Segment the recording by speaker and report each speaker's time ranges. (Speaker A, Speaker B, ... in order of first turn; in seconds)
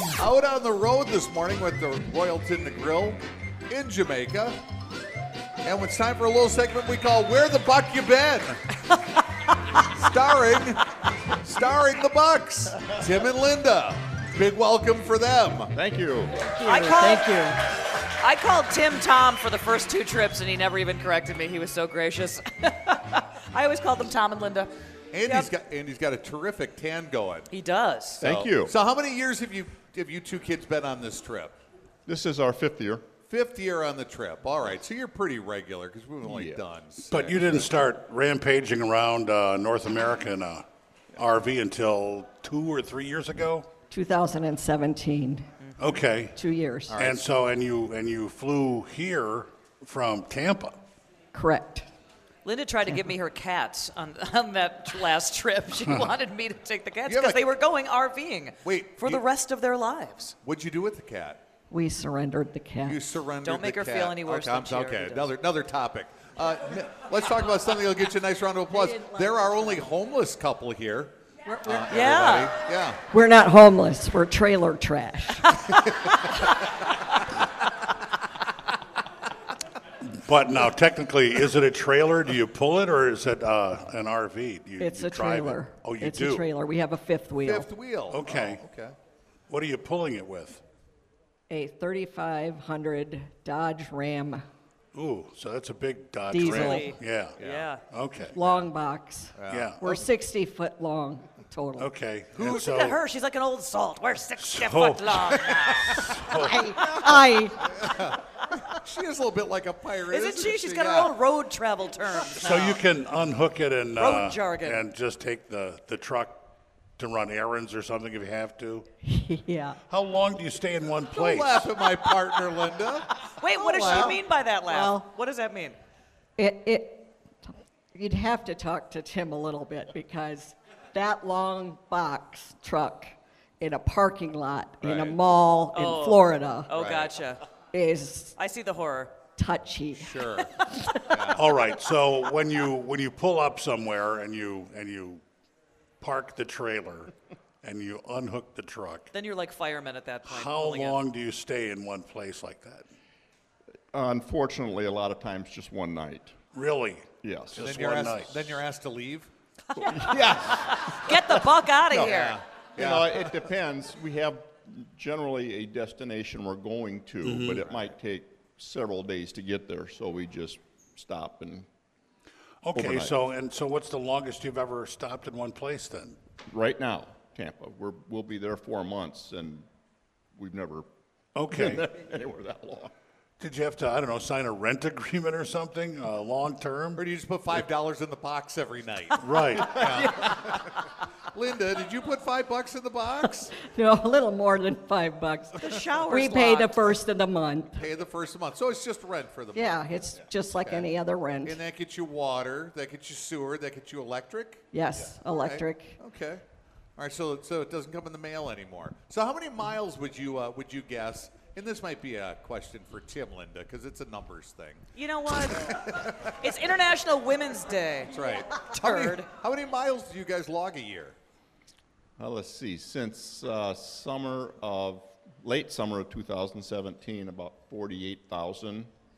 Speaker A: 0.2-4.6, 5.6-8.6, 9.8-10.8, 11.4-15.7, 25.1-27.5, 28.2-31.6, 33.2-37.8, 46.9-47.2, 57.1-57.5, 58.6-59.2, 60.4-61.4, 62.9-73.0, 87.4-88.9, 97.4-97.7, 99.3-100.0, 102.3-102.8, 105.2-106.2, 106.7-107.1, 107.6-111.1, 121.1-124.2, 134.8-135.2, 136.7-137.2, 140.0-140.5, 141.1-141.5, 157.6-159.3, 162.1-163.1, 186.9-193.6, 197.8-200.9, 201.4-204.7, 205.2-206.4, 207.0-214.9, 215.4-216.3, 218.1-221.2
Speaker B: 15.7-16.6, 28.2-28.7, 32.0-33.1, 36.2-36.6, 153.9-156.3, 157.2-157.7, 159.8-171.7, 172.7-173.2, 176.5-179.7, 180.3-180.9, 181.5-182.9, 189.5-190.4, 222.2-228.9
Speaker C: 16.5-17.6, 43.9-45.5, 46.3-47.1, 51.3-51.9, 61.7-63.1, 68.7-69.8, 71.5-71.8, 73.1-75.7, 84.8-87.7, 91.5-94.4, 96.3-96.9, 98.3-101.9, 106.2-107.6, 119.0-119.8, 123.7-125.0, 126.4-127.1, 127.9-136.7, 137.7-138.3, 139.3-140.2, 193.5-197.8, 199.5-201.6, 204.7-206.0
Speaker D: 16.6-17.3, 18.2-24.7, 25.2-25.5, 27.5-28.2, 52.4-60.3, 63.4-65.3, 71.9-72.5, 96.5-97.8, 102.5-106.2, 110.1-112.9, 114.0-114.8, 123.2-125.8, 135.7-137.4, 138.4-139.1, 140.4-140.9, 149.1-151.0, 160.6-162.4, 195.5-196.8, 214.9-219.3
Speaker E: 37.1-43.7, 45.8-46.4, 47.0-50.8, 55.8-56.1, 80.0-86.5, 88.1-88.6, 89.5-90.6, 94.9-97.4, 97.9-98.3, 99.5-99.8, 101.8-103.0, 104.4-105.2, 106.0-106.6, 112.3-116.4, 117.0-118.8, 119.9-121.6, 141.3-145.2, 146.0-149.1, 150.2-152.8, 156.5-158.6, 167.2-167.7, 172.6-176.2, 181.3-181.8, 183.4-187.0, 189.2-189.8